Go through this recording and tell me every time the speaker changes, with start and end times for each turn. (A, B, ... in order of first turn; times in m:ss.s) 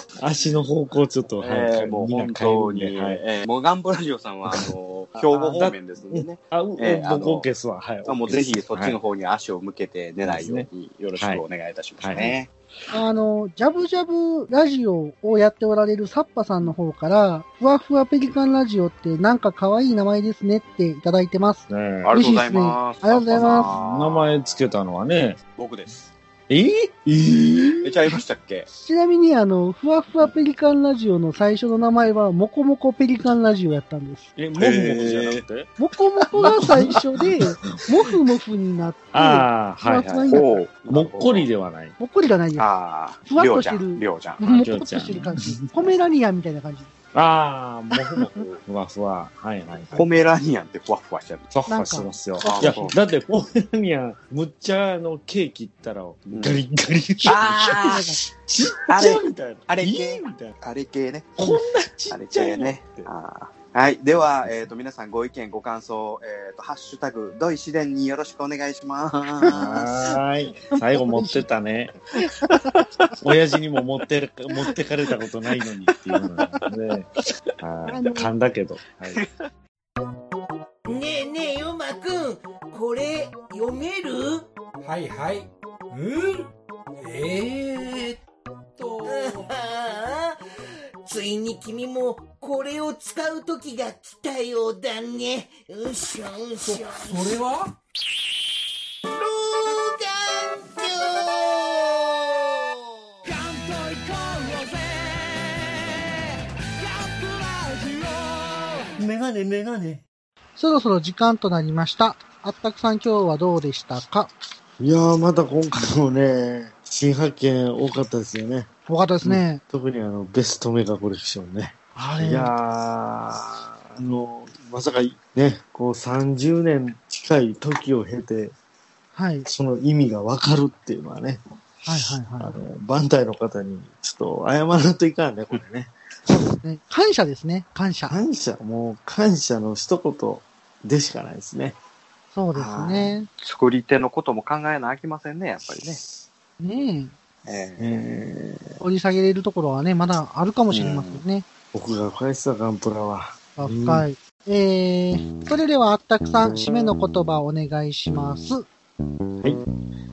0:00.2-0:03.2 A
0:01.3-0:07.5 B
0:05.2-0:09.0 A
0:08.0-0:12.9 B
0:10.2-0:11.4 A
0:12.0-0:12.4 A
0:12.9-0:23.7 C
0:21.7-0:22.1 A
0:22.0-0:24.6 B
0:23.3-0:25.4 A
0:25.6-0:26.1 B
0:26.5-0:28.2 A
0:27.8-0:28.7 B
0:28.8-0:34.3 C
0:34.4-0:35.7 A
0:34.6-0:35.4 B
0:35.8-0:40.6 C
0:36.4-0:37.8 A
0:36.4-0:36.8 B
0:39.1-0:42.0 A
0:40.0-0:41.5 B
0:42.0-0:42.7 C
0:42.6-0:44.5 B
0:43.3-0:46.9 C
0:44.4-0:46.0 A
0:47.1-0:50.1 A
0:49.9-0:51.6 B
0:51.5-1:00.6 A
0:51.7-0:52.9 C
0:52.4-0:53.0 B
0:56.3-0:56.6 B
0:57.2-0:58.0 B
0:57.8-0:58.2 C
0:58.9-1:10.1 B
1:01.4-1:03.1 A
1:04.4-1:04.7 A
1:09.5-1:12.0 A
1:10.7-1:11.5 C
1:12.4-1:12.7 C
1:13.2-1:17.1 A
1:17.6-1:19.2 A
1:17.9-1:18.3 C
1:19.1-1:19.4 B
1:20.9-1:24.5 D
1:24.8-1:26.5 E
1:27.0-1:27.9 E
1:28.8-1:29.5 E
1:29.0-1:30.4 D
1:31.0-1:37.4 D
1:37.1-1:37.7 E
1:39.2-1:42.2 D
1:43.4-1:45.5 D
1:47.0-1:48.9 D
1:49.0-1:50.0 A
1:50.6-1:54.3 C
1:54.8-1:58.7 A
1:58.9-1:59.6 C
1:59.2-2:08.6 A
2:02.0-2:02.5 C
2:09.1-2:09.5 C
2:09.5-2:11.4 A
2:11.9-2:12.6 C
2:12.4-2:15.9 A
2:16.3-2:18.2 C
2:18.1-2:21.8 A
2:22.3-2:23.3 C
2:22.5-2:23.2 A
2:23.4-2:26.0 B
2:26.6-2:27.1 C
2:27.4-2:28.0 B
2:27.8-2:28.8 A
2:28.8-2:31.5 C
2:30.7-2:31.2 B
2:31.7-2:34.1 A
2:33.6-2:38.6 C